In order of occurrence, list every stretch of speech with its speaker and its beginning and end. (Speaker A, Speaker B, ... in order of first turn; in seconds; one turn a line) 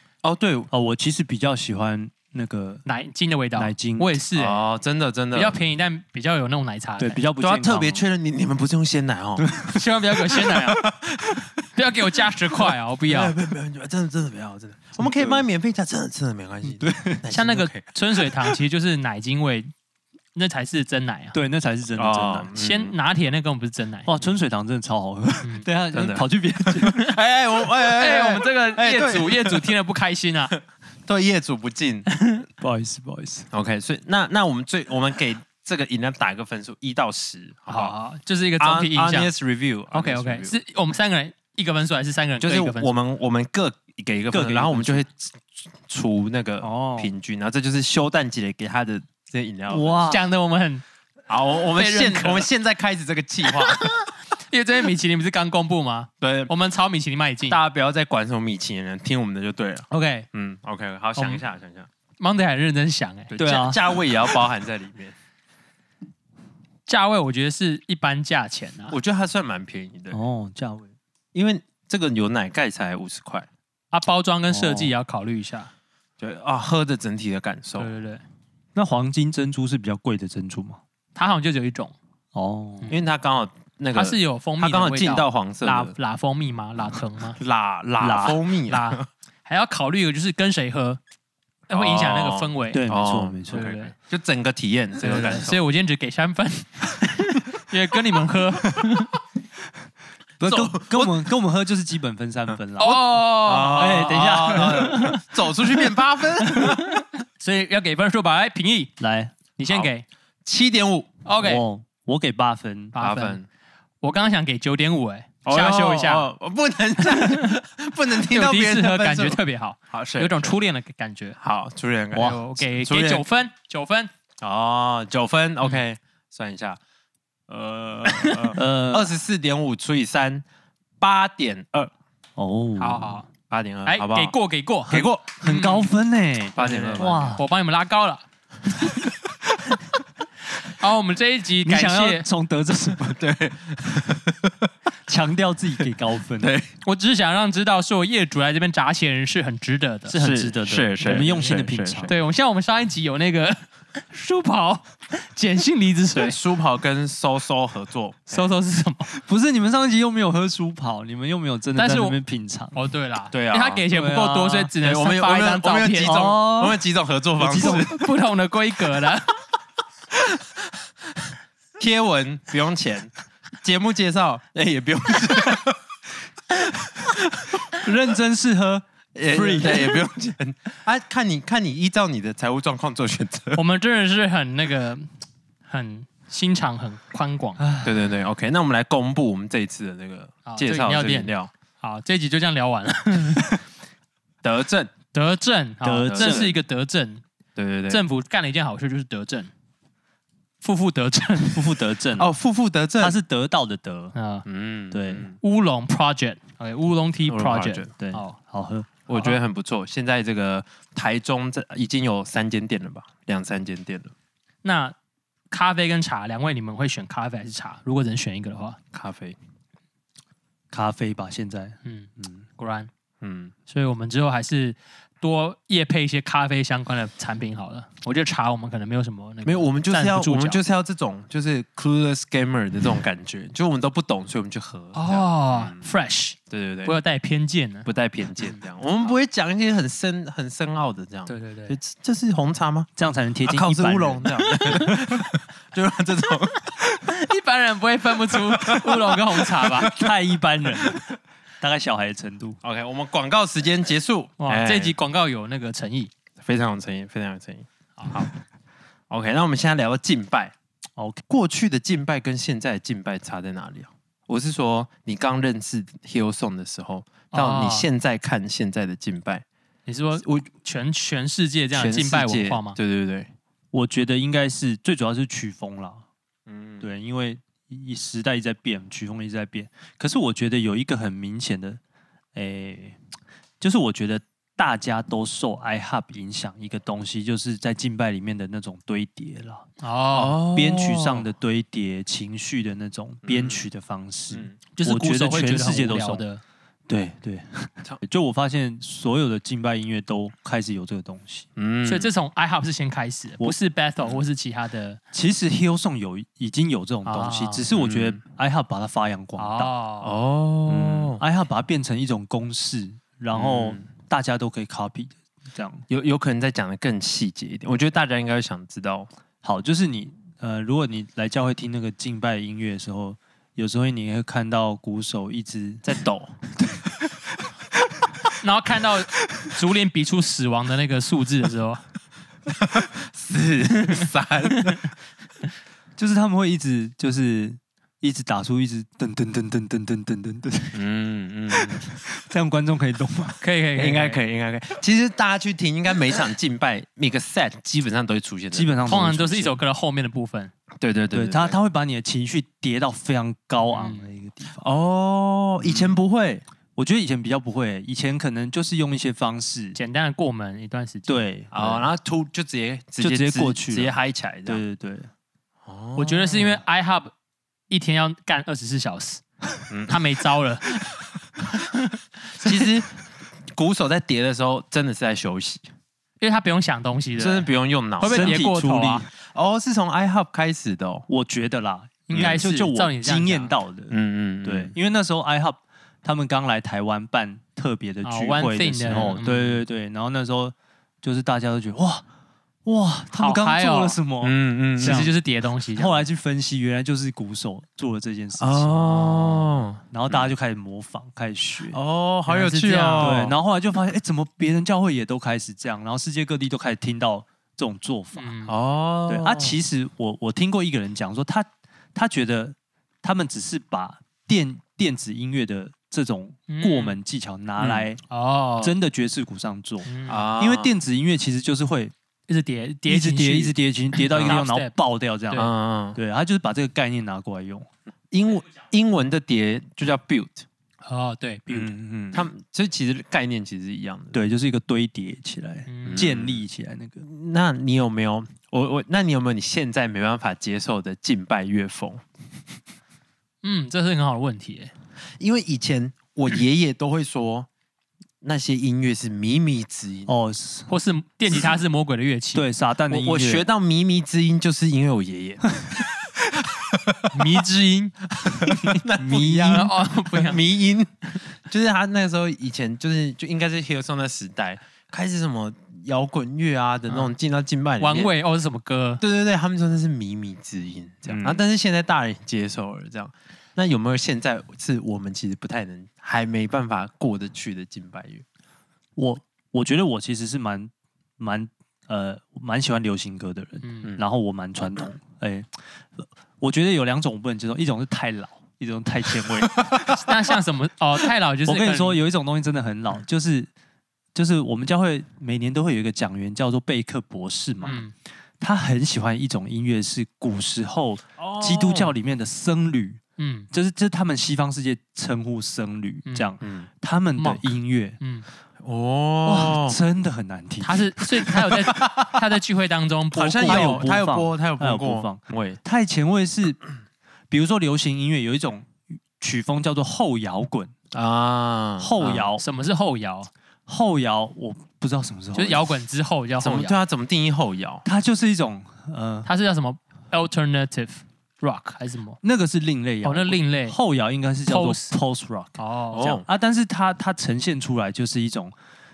Speaker A: 0.2-0.7
Speaker B: 0.7-2.8
Speaker C: 2.8-4.6
Speaker B: 3.5-4.2
Speaker A: 4.3-5.6
Speaker C: 5.3-7.2
Speaker B: 7.0-8.0
Speaker A: 7.4-9.5
Speaker B: 9.4-9.8
Speaker C: 9.7-10.8
Speaker A: 10.6-11.5
Speaker C: 11.8-13.3
Speaker A: 13.1-17.8
Speaker B: 15.0-15.4
Speaker B: 16.6-17.2
Speaker C: 17.3-19.7
Speaker C: 20.3-21.4
Speaker B: 21.3-22.5
Speaker A: 22.0-22.9
Speaker C: 22.6-24.1
Speaker B: 24.0-27.1
Speaker A: 25.9-29.7
Speaker C: 27.9-30.5
Speaker A: 31.1-32.1
Speaker C: 32.1-32.4
Speaker B: 32.6-33.5
Speaker A: 33.5-37.9
Speaker C: 37.7-39.3
Speaker A: 38.6-40.5
Speaker C: 39.9-42.9
Speaker A: 42.4-45.3
Speaker B: 44.3-45.0
Speaker A: 45.9-50.1
Speaker B: 46.6-47.1
Speaker B: 49.7-50.2
Speaker C: 50.1-50.8
Speaker A: 51.3-53.9
Speaker C: 51.7-52.5
Speaker C: 53.6-57.6
Speaker A: 56.2-56.5
Speaker A: 57.5-61.9
Speaker C: 59.9-60.3
Speaker C: 61.2-61.4
Speaker C: 62.2-63.4
Speaker A: 63.3-65.1
Speaker B: 63.4-63.8
Speaker C: 66.8-69.0
Speaker A: 68.9-70.2
Speaker B: 70.1-70.9
Speaker A: 71.3-73.5
Speaker C: 73.9-75.7
Speaker B: 74.5-74.9
Speaker A: 76.2-77.9
Speaker C: 77.8-78.2
Speaker B: 78.7-80.8
Speaker C: 81.1-81.9
Speaker B: 82.3-82.9
Speaker A: 82.9-85.9
Speaker C: 84.0-87.4
Speaker A: 87.4-89.0
Speaker B: 88.0-88.4
Speaker C: 88.7-91.0
Speaker C: 91.7-92.9
Speaker A: 91.7-95.6
Speaker B: 92.7-93.7
Speaker C: 93.5-93.9
Speaker C: 95.0-99.1
Speaker B: 100.4-103.2
Speaker A: 100.4-101.2
Speaker C: 102.8-105.2
Speaker A: 103.4-106.8
Speaker B: 103.7-105.2
Speaker C: 106.4-109.0
Speaker B: 109.0-109.3
Speaker C: 109.5-110.0
Speaker A: 110.4-111.2
Speaker C: 111.2-111.6
Speaker B: 111.4-112.9
Speaker C: 112.9-113.4
Speaker A: 113.0-113.5
Speaker C: 114.0-116.3
Speaker A: 115.4-120.5
Speaker C: 117.0-117.5
Speaker C: 118.3-121.4
Speaker A: 121.4-123.2
Speaker B: 122.1-122.4
Speaker C: 122.1-124.1
Speaker A: 124.4-126.8
Speaker A: 127.5-130.4
Speaker C: 128.1-128.6
Speaker B: 128.5-129.1
Speaker A: 131.0-131.9
Speaker B: 132.3-133.2
Speaker C: 132.8-133.3
Speaker A: 133.5-134.3
Speaker C: 133.8-135.9
Speaker A: 134.9-135.2
Speaker B: 134.9-137.4
Speaker A: 136.6-137.3
Speaker C: 136.6-138.2
Speaker C: 140.6-142.2
Speaker B: 141.6-143.2
Speaker A: 143.1-144.7
Speaker B: 145.1-146.5
Speaker A: 146.4-146.7
Speaker C: 146.8-150.2
Speaker B: 150.1-152.1
Speaker A: 150.1-152.1
Speaker C: 151.0-151.3
Speaker C: 152.1-156.4
Speaker A: 156.2-158.5
Speaker C: 158.3-159.1
Speaker B: 159.1-162.8
Speaker C: 161.8-162.2
Speaker C: 162.7-166.2
Speaker A: 163.3-163.8
Speaker B: 163.9-164.7
Speaker A: 164.8-168.0
Speaker B: 166.0-166.8
Speaker B: 167.4-167.9
Speaker C: 167.5-169.4
Speaker A: 171.8-175.8
Speaker A: 176.8-177.6
Speaker B: 177.7-180.1
Speaker A: 179.2-183.6
Speaker C: 183.5-185.1
Speaker C: 185.7-187.6
Speaker B: 187.6-188.1
Speaker A: 187.8-191.5
Speaker C: 190.4-193.6
Speaker A: 194.4-194.9
Speaker C: 195.1-197.2
Speaker B: 195.8-196.6
Speaker A: 196.1-196.6
Speaker A: 197.6-198.0
Speaker C: 197.9-199.5
Speaker C: 200.6-201.7
Speaker B: 201.5-202.3
Speaker A: 202.2-203.2
Speaker B: 203.0-204.1
Speaker C: 204.1-204.4
Speaker A: 204.4-205.4
Speaker B: 204.9-205.3
Speaker C: 205.4-208.3
Speaker A: 207.3-207.9
Speaker B: 208.0-209.0
Speaker A: 209.1-214.1
Speaker C: 214.6-214.9
Speaker C: 215.5-218.8
Speaker A: 218.9-219.4
Speaker B: 220.7-222.4
Speaker C: 221.8-222.9
Speaker A: 223.2-223.5
Speaker C: 223.7-230.6
Speaker A: 229.4-235.9
Speaker C: 234.9-237.9
Speaker A: 236.5-237.0
Speaker A: 237.8-242.9
Speaker C: 241.2-241.8
Speaker B: 242.9-245.2
Speaker A: 243.4-246.7
Speaker C: 247.0-249.9
Speaker A: 248.3-250.1
Speaker B: 249.8-251.1
Speaker A: 250.8-251.0
Speaker B: 251.6-252.6
Speaker A: 252.6-254.9
Speaker C: 254.4-256.1
Speaker A: 256.4-258.3
Speaker C: 258.0-258.2
Speaker A: 259.1-260.5
Speaker B: 261.0-261.2
Speaker A: 261.3-269.4
Speaker C: 267.3-267.9
Speaker C: 269.9-272.8
Speaker A: 271.7-273.3
Speaker B: 273.7-276.0
Speaker A: 276.5-276.9
Speaker B: 276.8-281.8
Speaker B: 282.3-283.0
Speaker B: 283.6-289.7
Speaker C: 289.8-290.4
Speaker A: 290.1-291.2
Speaker B: 290.5-296.2
Speaker A: 293.2-293.6
Speaker A: 294.3-294.6
Speaker C: 294.7-296.4
Speaker B: 296.9-301.4
Speaker A: 301.6-302.1
Speaker C: 301.8-305.0
Speaker B: 305.1-309.7
Speaker C: 307.1-307.6
Speaker A: 307.7-308.2
Speaker C: 309.4-310.1
Speaker A: 310.0-311.2
Speaker B: 310.7-315.9
Speaker A: 313.3-313.9
Speaker A: 315.9-319.1
Speaker B: 319.4-325.8
Speaker A: 325.8-326.4
Speaker C: 328.4-331.8
Speaker A: 332.5-334.9
Speaker B: 336.0-340.8
Speaker A: 340.7-341.9
Speaker B: 341.5-343.4
Speaker C: 343.4-344.2
Speaker A: 343.8-349.1
Speaker B: 348.5-349.6
Speaker C: 348.9-350.5
Speaker A: 350.8-351.6
Speaker B: 351.1-354.6
Speaker C: 353.7-354.1
Speaker A: 354.6-356.4
Speaker B: 355.6-356.0
Speaker B: 356.8-359.8
Speaker C: 359.7-361.2
Speaker B: 361.1-361.9
Speaker A: 361.5-364.6
Speaker B: 363.0-363.9
Speaker B: 364.4-365.1
Speaker A: 365.6-366.6
Speaker C: 365.9-367.1
Speaker C: 367.7-369.2
Speaker A: 369.7-370.0
Speaker C: 369.9-370.8
Speaker C: 371.5-372.6
Speaker A: 372.4-372.9
Speaker A: 373.5-375.7
Speaker C: 376.2-379.1
Speaker A: 377.2-378.4
Speaker B: 378.0-379.1
Speaker A: 379.2-381.1
Speaker B: 381.1-392.0
Speaker C: 382.1-383.5
Speaker A: 382.1-382.4
Speaker A: 383.9-384.7
Speaker C: 388.0-389.6
Speaker B: 392.6-395.1
Speaker C: 393.1-394.0
Speaker A: 394.2-395.1
Speaker C: 394.8-396.0
Speaker B: 395.7-401.8
Speaker A: 398.4-400.3
Speaker A: 401.7-403.4
Speaker C: 402.3-403.2
Speaker B: 403.0-408.3
Speaker C: 408.1-408.5
Speaker A: 408.5-409.6
Speaker B: 409.1-418.0
Speaker C: 416.5-417.0
Speaker A: 417.6-417.9
Speaker C: 418.1-418.7
Speaker B: 418.6-421.9
Speaker C: 419.8-420.2
Speaker A: 420.1-420.8
Speaker C: 422.3-424.7
Speaker B: 422.9-427.7
Speaker A: 425.3-426.0
Speaker A: 428.1-430.4
Speaker C: 430.8-431.7
Speaker B: 431.5-432.2
Speaker A: 432.1-434.2
Speaker B: 434.1-437.0
Speaker C: 435.7-436.1
Speaker A: 435.9-436.4
Speaker A: 437.0-442.0
Speaker C: 443.4-444.7
Speaker A: 445.2-447.5
Speaker A: 448.2-450.1
Speaker B: 450.1-450.7
Speaker C: 450.7-452.4
Speaker B: 452.3-453.5
Speaker A: 452.9-455.8
Speaker A: 456.5-457.1
Speaker C: 457.1-457.9
Speaker A: 458.1-468.1
Speaker B: 458.4-459.6
Speaker C: 459.0-460.4
Speaker C: 466.9-467.1
Speaker C: 467.8-469.0
Speaker A: 469.0-478.2
Speaker B: 471.1-471.4
Speaker B: 478.9-489.9
Speaker C: 483.6-483.9
Speaker C: 489.9-492.0
Speaker B: 491.5-493.5
Speaker B: 494.1-497.8
Speaker C: 497.6-497.9
Speaker B: 498.4-503.0
Speaker A: 501.2-501.9
Speaker C: 503.2-503.5
Speaker B: 503.5-508.0
Speaker C: 506.0-506.3
Speaker A: 506.4-506.7
Speaker C: 508.0-508.2
Speaker A: 508.6-509.8
Speaker B: 509.2-511.4
Speaker C: 510.6-513.9
Speaker A: 511.3-512.2
Speaker A: 513.1-515.6
Speaker B: 513.1-516.6
Speaker B: 517.3-520.7
Speaker A: 520.9-522.3
Speaker B: 521.8-522.4
Speaker C: 522.4-523.3
Speaker B: 523.7-525.7
Speaker C: 525.3-526.8
Speaker A: 526.4-527.8
Speaker B: 527.8-529.3
Speaker C: 529.2-532.2
Speaker B: 532.2-538.5
Speaker C: 533.0-533.8
Speaker C: 534.5-534.9
Speaker C: 535.6-536.2
Speaker A: 535.9-536.2